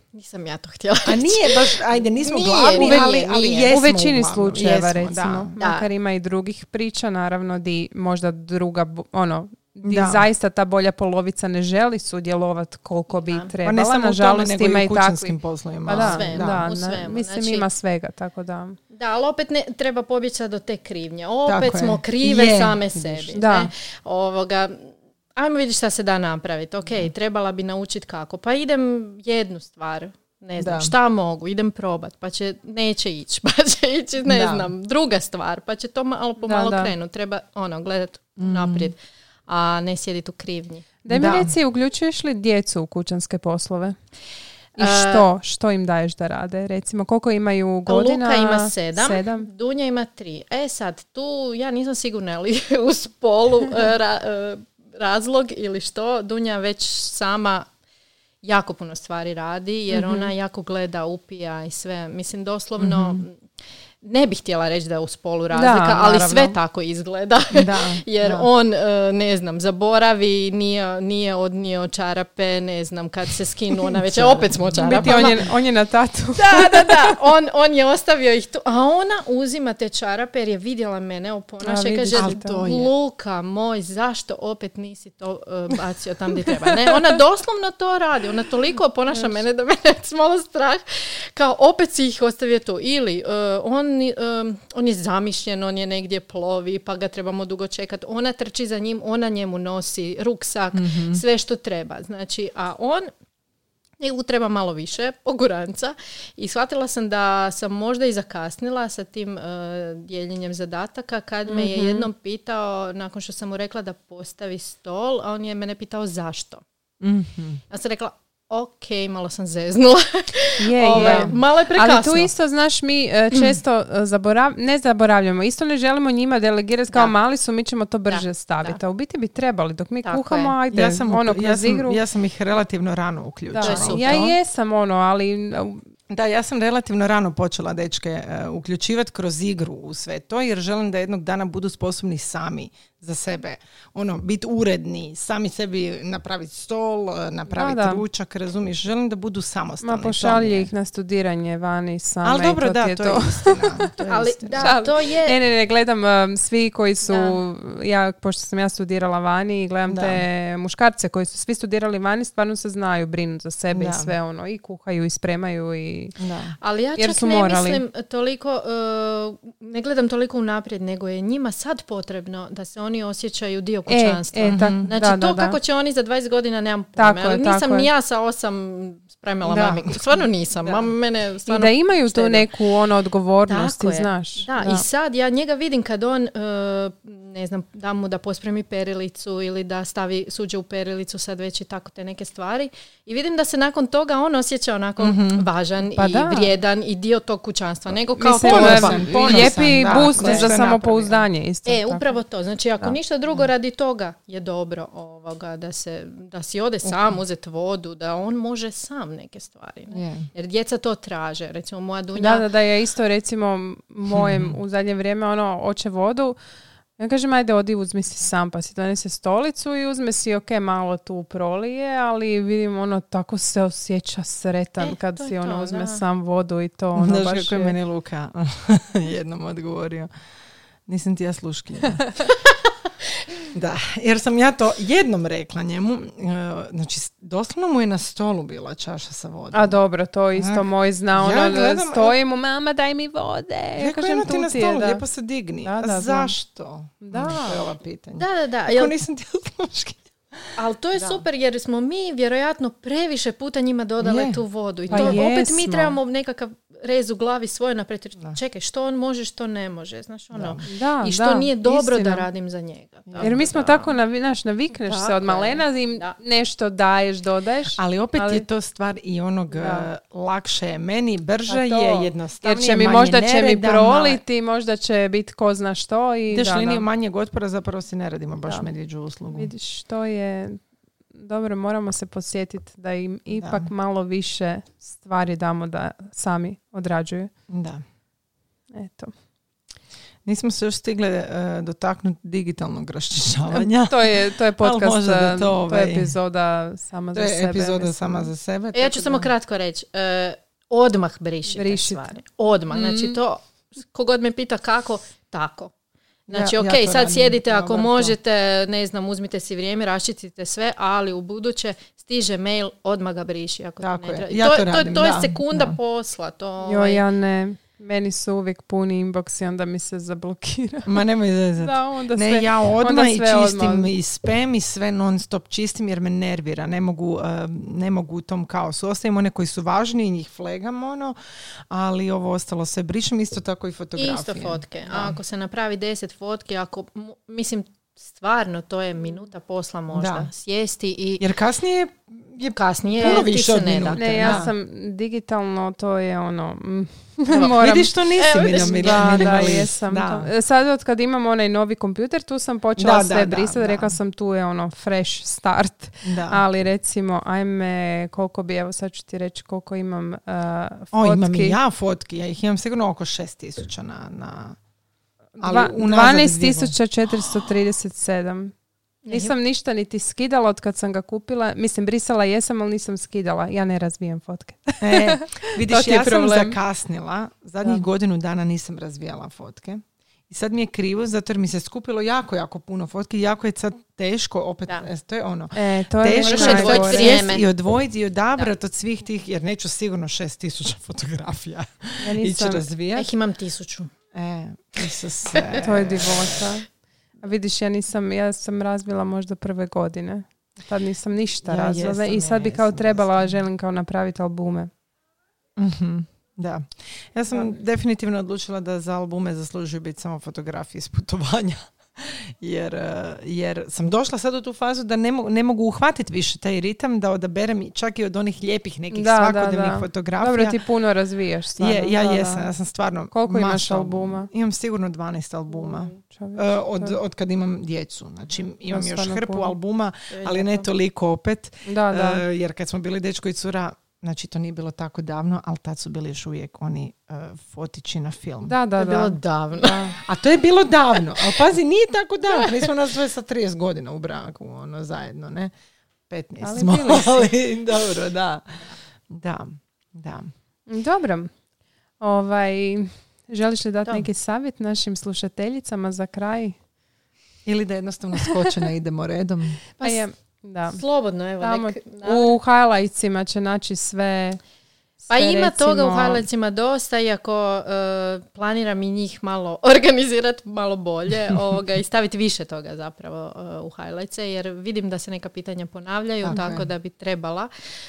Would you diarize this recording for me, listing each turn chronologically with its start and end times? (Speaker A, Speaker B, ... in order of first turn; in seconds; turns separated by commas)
Speaker A: 0.1-3.7, Speaker B: 1.1-5.5, Speaker C: 2.8-3.1, Speaker C: 3.7-18.8, Speaker A: 5.6-5.9, Speaker B: 9.8-10.2, Speaker A: 13.1-13.5, Speaker B: 13.6-16.6, Speaker A: 15.9-17.6, Speaker A: 18.9-41.4, Speaker B: 21.5-23.4, Speaker C: 23.4-23.7, Speaker B: 30.6-30.9, Speaker B: 34.2-34.7, Speaker C: 36.4-36.9, Speaker B: 38.4-38.9, Speaker C: 41.0-44.0, Speaker B: 41.1-41.5, Speaker A: 44.8-45.3, Speaker C: 44.8-49.5, Speaker A: 47.9-57.7, Speaker A: 58.4-63.4, Speaker C: 59.9-60.3, Speaker B: 62.8-63.2, Speaker A: 64.0-75.4, Speaker C: 65.5-66.6, Speaker B: 67.5-68.5, Speaker B: 74.0-75.4, Speaker C: 74.8-77.2, Speaker A: 76.4-103.1, Speaker C: 81.6-82.6, Speaker B: 82.1-82.9, Speaker C: 89.1-89.4, Speaker B: 100.7-101.2, Speaker A: 104.0-116.6, Speaker C: 111.5-112.1, Speaker B: 117.0-117.6, Speaker A: 117.7-122.3, Speaker C: 120.6-132.0, Speaker B: 120.9-121.4, Speaker A: 128.1-128.8, Speaker A: 130.0-130.6, Speaker B: 130.7-134.3, Speaker C: 133.5-135.9, Speaker A: 133.6-134.2, Speaker B: 136.1-150.7, Speaker C: 147.5-148.0, Speaker C: 149.8-153.9, Speaker B: 152.2-154.8, Speaker A: 154.1-155.4, Speaker C: 154.6-166.1, Speaker A: 157.0-157.4, Speaker B: 159.9-160.2, Speaker B: 163.7-164.1, Speaker B: 166.2-166.6, Speaker A: 166.6-182.5, Speaker C: 167.0-167.8, Speaker C: 173.9-175.6, Speaker B: 174.5-174.9, Speaker C: 177.0-177.9, Speaker B: 179.4-180.0, Speaker C: 181.5-184.9, Speaker A: 183.5-200.6, Speaker B: 195.0-195.5, Speaker C: 195.9-196.5, Speaker C: 198.2-202.1, Speaker B: 198.4-201.2, Speaker A: 201.7-212.5, Speaker B: 209.9-210.3, Speaker C: 212.1-216.4, Speaker B: 214.1-214.6, Speaker C: 217.0-227.8, Speaker A: 224.8-226.0, Speaker B: 227.0-230.1, Speaker B: 230.9-232.0, Speaker B: 233.5-239.8, Speaker C: 239.5-245.0, Speaker B: 240.3-242.1, Speaker B: 243.8-251.2, Speaker C: 245.6-246.3, Speaker C: 247.0-247.5, Speaker A: 247.2-247.6, Speaker A: 248.2-248.9, Speaker A: 250.6-264.0, Speaker B: 254.0-255.3, Speaker C: 254.9-255.9, Speaker B: 260.3-260.6, Speaker C: 260.7-262.3, Speaker B: 263.1-263.4, Speaker C: 263.2-268.5, Speaker A: 264.8-266.2, Speaker B: 267.8-274.2, Speaker C: 269.5-269.9, Speaker C: 271.5-276.9, Speaker B: 276.3-279.5, Speaker C: 279.3-287.3, Speaker B: 283.3-283.7, Speaker B: 287.5-287.8, Speaker C: 288.7-289.1, Speaker B: 290.2-296.1, Speaker C: 293.5-298.3, Speaker B: 297.1-299.3, Speaker A: 298.7-305.7, Speaker C: 301.6-302.1, Speaker C: 302.7-303.2, Speaker A: 306.3-317.0, Speaker B: 306.3-308.1, Speaker B: 313.8-315.8, Speaker C: 316.6-321.0, Speaker B: 320.9-331.2, Speaker C: 321.6-323.9, Speaker B: 331.7-335.2, Speaker A: 334.0-341.2, Speaker B: 339.9-340.3, Speaker B: 341.2-344.5, Speaker A: 342.5-344.5, Speaker C: 344.0-347.9, Speaker B: 347.3-350.3, Speaker A: 348.2-349.6, Speaker C: 348.5-361.6, Speaker B: 352.8-354.0, Speaker B: 356.0-356.4, Speaker B: 360.9-364.6, Speaker C: 365.4-368.6, Speaker B: 365.4-366.8, Speaker A: 369.1-369.3, Speaker C: 369.1-376.6, Speaker B: 374.8-393.1, Speaker C: 385.6-387.3, Speaker A: 386.2-387.4, Speaker C: 392.0-392.6, Speaker A: 393.0-393.9, Speaker B: 394.1-396.2, Speaker C: 395.6-404.7, Speaker B: 401.4-403.4, Speaker B: 405.6-420.6, Speaker C: 407.3-407.6, Speaker C: 418.9-422.5, Speaker B: 421.6-438.6, Speaker C: 423.1-424.3, Speaker C: 425.5-427.0, Speaker C: 428.7-429.6, Speaker A: 430.1-430.6, Speaker C: 431.6-432.2, Speaker C: 438.5-439.2, Speaker A: 438.8-440.0, Speaker B: 439.5-445.5, Speaker A: 442.4-442.7, Speaker B: 446.1-450.3, Speaker C: 446.4-447.4, Speaker C: 450.7-451.3, Speaker C: 452.0-456.6, Speaker B: 457.5-459.6, Speaker C: 459.8-460.8, Speaker A: 459.8-460.1, Speaker A: 460.7-462.3, Speaker C: 461.4-464.4, Speaker C: 465.0-466.2, Speaker A: 465.1-477.5, Speaker B: 476.2-476.7